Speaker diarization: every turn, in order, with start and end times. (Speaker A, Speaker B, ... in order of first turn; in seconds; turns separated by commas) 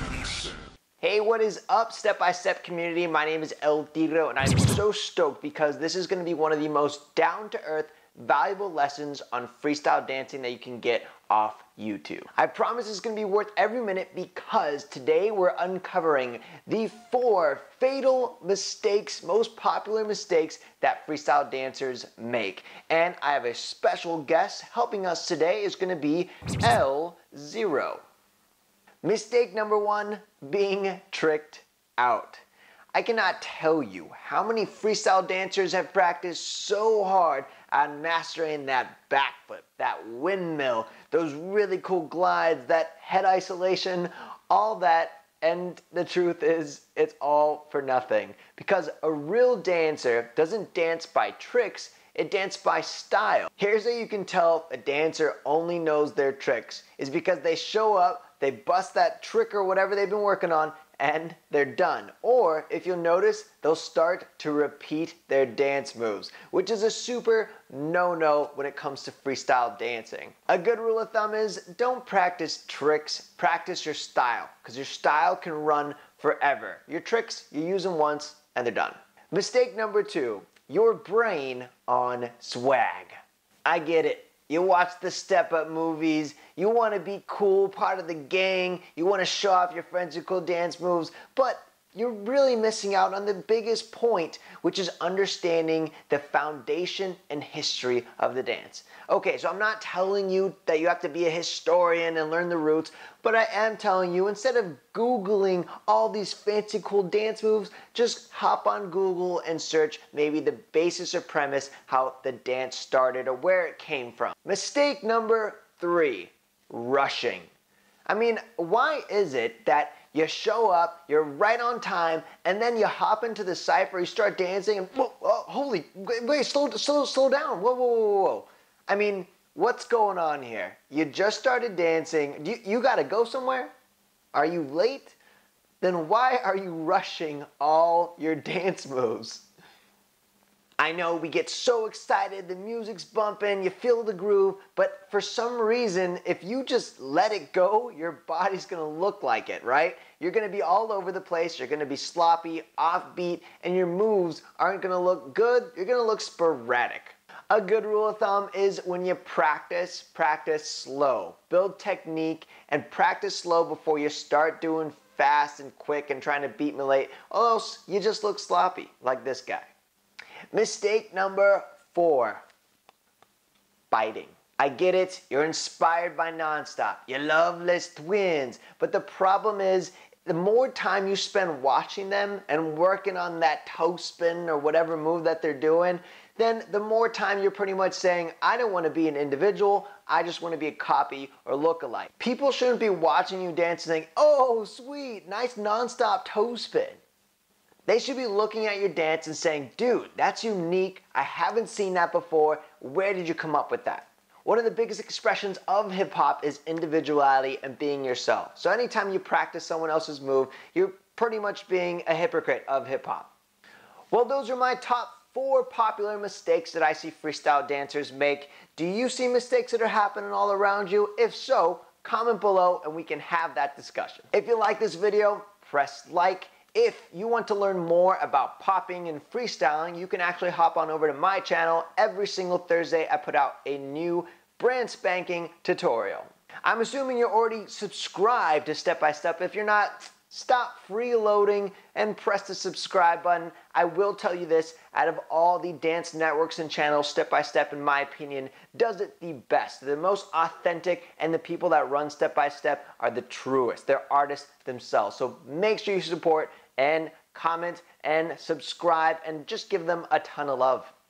Speaker A: 1.0-28.0, Speaker A: 29.0-32.4, Speaker A: 32.9-117.5, Speaker A: 118.1-133.7, Speaker A: 134.3-135.2, Speaker A: 135.8-139.4, Speaker A: 140.8-169.7, Speaker A: 170.5-172.4, Speaker A: 173.9-197.0, Speaker A: 197.9-213.3, Speaker A: 214.1-260.9